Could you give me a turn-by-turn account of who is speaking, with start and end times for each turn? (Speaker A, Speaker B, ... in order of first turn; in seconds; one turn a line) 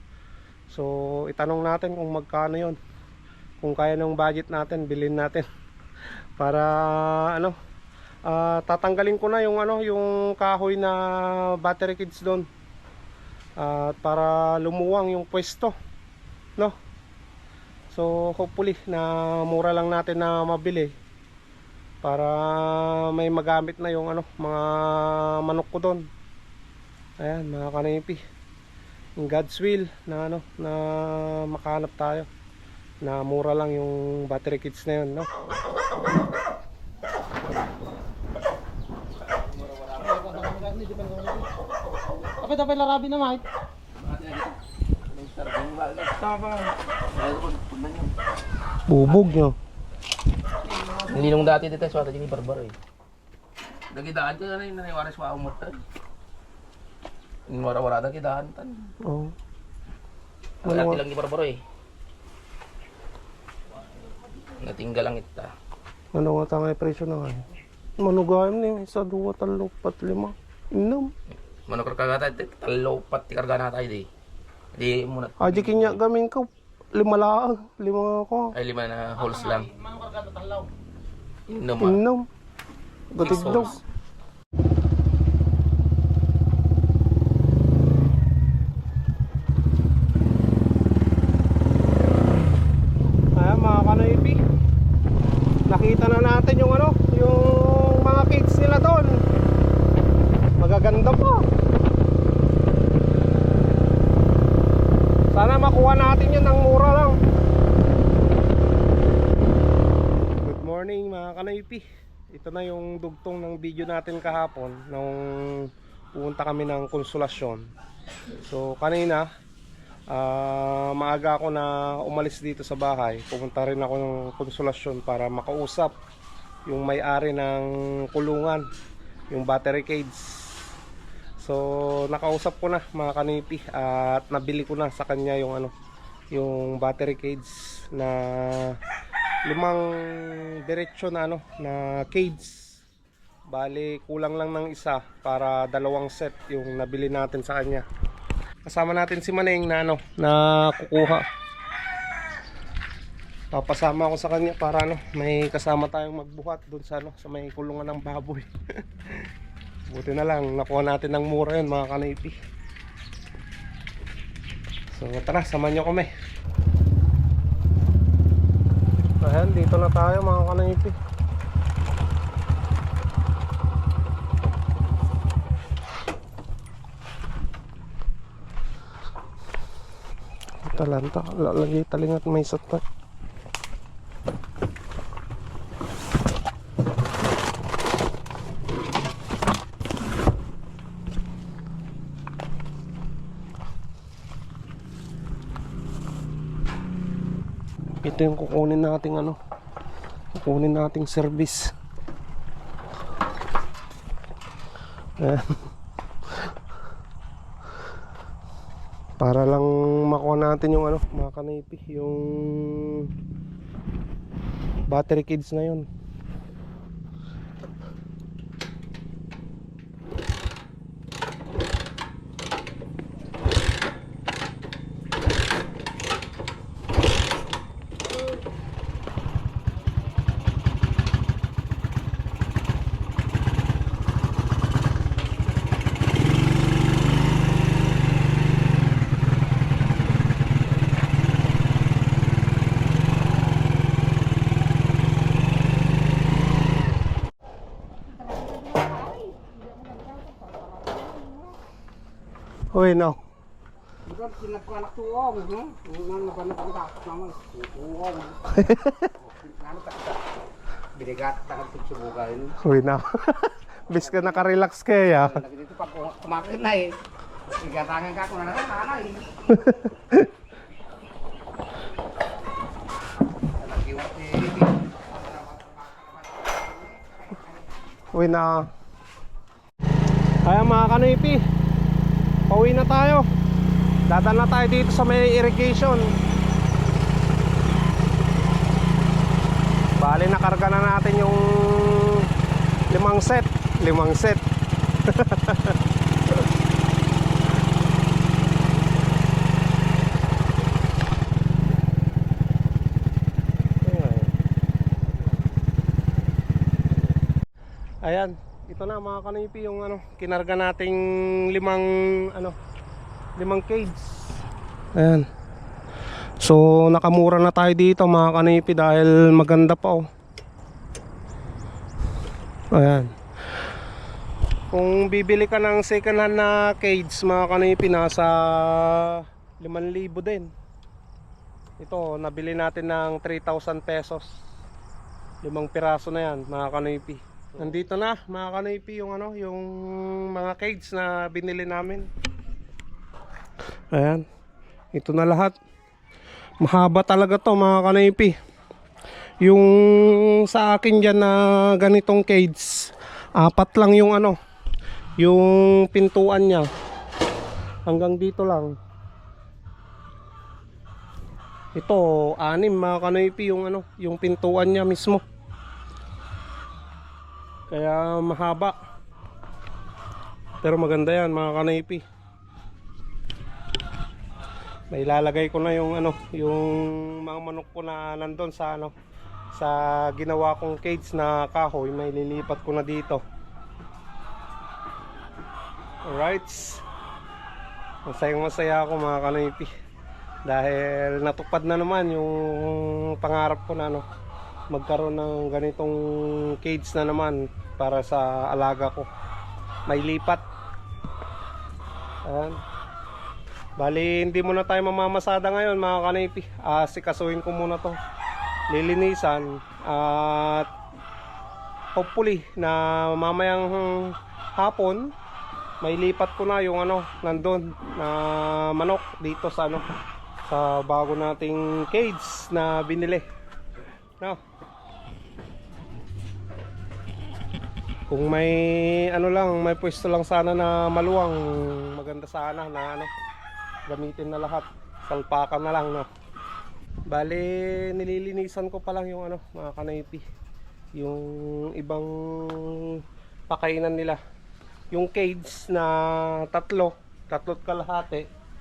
Speaker A: 0.7-2.8
Speaker A: 3.6-5.5
Speaker A: 6.4-7.5
Speaker A: 8.2-12.5
Speaker A: 13.6-15.7
Speaker A: 17.9-20.9
Speaker A: 22.0-26.1
Speaker A: 27.2-28.2
Speaker A: 29.2-32.3
Speaker A: 33.0-35.3
Speaker B: 39.3-40.4
Speaker C: 40.0-41.5
Speaker C: 42.4-43.4
Speaker B: 44.0-46.2
Speaker B: 47.1-48.1
Speaker A: 48.9-49.5
Speaker C: 50.6-51.5
Speaker B: 51.1-52.7
Speaker B: 53.9-55.8
Speaker B: 57.5-58.9
Speaker A: 59.0-59.3
Speaker B: 60.6-61.6
Speaker A: 60.6-61.0
Speaker B: 64.6-65.5
Speaker A: 66.1-67.4
Speaker A: 68.0-71.1
Speaker B: 71.3-74.1
Speaker B: 74.7-76.0
Speaker A: 75.4-78.5
Speaker B: 78.5-79.7
Speaker C: 79.2-80.7
Speaker B: 81.5-82.0
Speaker A: 81.8-82.2
Speaker A: 83.1-83.8
Speaker B: 83.2-83.8
Speaker C: 83.2-83.7
Speaker A: 93.4-94.4
Speaker A: 95.7-99.2
Speaker A: 100.6-101.4
Speaker A: 105.3-107.2
Speaker A: 110.4-117.7
Speaker A: 118.4-119.3
Speaker A: 120.1-125.9
Speaker A: 126.7-128.7
Speaker A: 129.3-130.2
Speaker A: 131.4-135.7
Speaker A: 136.3-138.8
Speaker A: 139.4-142.7
Speaker A: 143.5-147.8
Speaker A: 148.6-151.2
Speaker A: 153.5-158.5
Speaker A: 159.9-162.3
Speaker A: 164.9-166.1
Speaker A: 169.2-170.9
Speaker A: 180.7-182.8
Speaker A: 198.0-199.4
Speaker A: 200.3-201.7
Speaker A: 205.2-205.6
Speaker A: 209.2-213.1
Speaker A: 214.9-215.9
Speaker D: 248.1-251.6
Speaker A: 252.7-253.2
Speaker D: 254.1-258.6
Speaker A: 258.5-259.1
Speaker D: 259.2-260.2
Speaker D: 260.9-262.6
Speaker A: 262.6-265.4
Speaker D: 263.9-264.5
Speaker D: 265.2-269.8
Speaker D: 273.5-277.7
Speaker A: 278.1-278.6
Speaker A: 280.4-281.4
Speaker A: 282.5-283.2
Speaker A: 284.1-286.1
Speaker A: 290.0-292.3
Speaker A: 292.9-294.4
Speaker A: 295.1-295.8
Speaker A: 303.8-304.3
Speaker A: 308.0-312.6
Speaker A: 313.4-314.4
Speaker A: 315.0-315.2
Speaker A: 316.4-320.0
Speaker A: 322.7-323.1
Speaker A: 324.7-330.5
Speaker A: 331.8-334.2
Speaker A: 335.4-342.1
Speaker A: 343.9-344.2
Speaker A: 344.9-345.5
Speaker A: 346.6-348.3
Speaker A: 349.4-354.4
Speaker A: 355.2-356.7
Speaker A: 357.9-358.7
Speaker A: 361.8-365.2
Speaker A: 367.7-368.7
Speaker A: 370.6-372.0
Speaker A: 374.9-378.9
Speaker A: 379.5-383.2
Speaker A: 386.1-386.8
Speaker A: 388.1-389.7
Speaker A: 390.4-394.0
Speaker A: 394.7-399.1
Speaker A: 399.9-400.4
Speaker A: 402.2-402.6
Speaker A: 403.8-408.0
Speaker A: 408.7-410.7
Speaker A: 411.9-415.1
Speaker A: 415.8-419.8
Speaker A: 420.5-423.2
Speaker A: 428.1-433.1
Speaker A: 433.9-436.1
Speaker A: 437.1-440.2
Speaker A: 441.0-443.0
Speaker A: 443.5-444.2
Speaker A: 444.9-448.3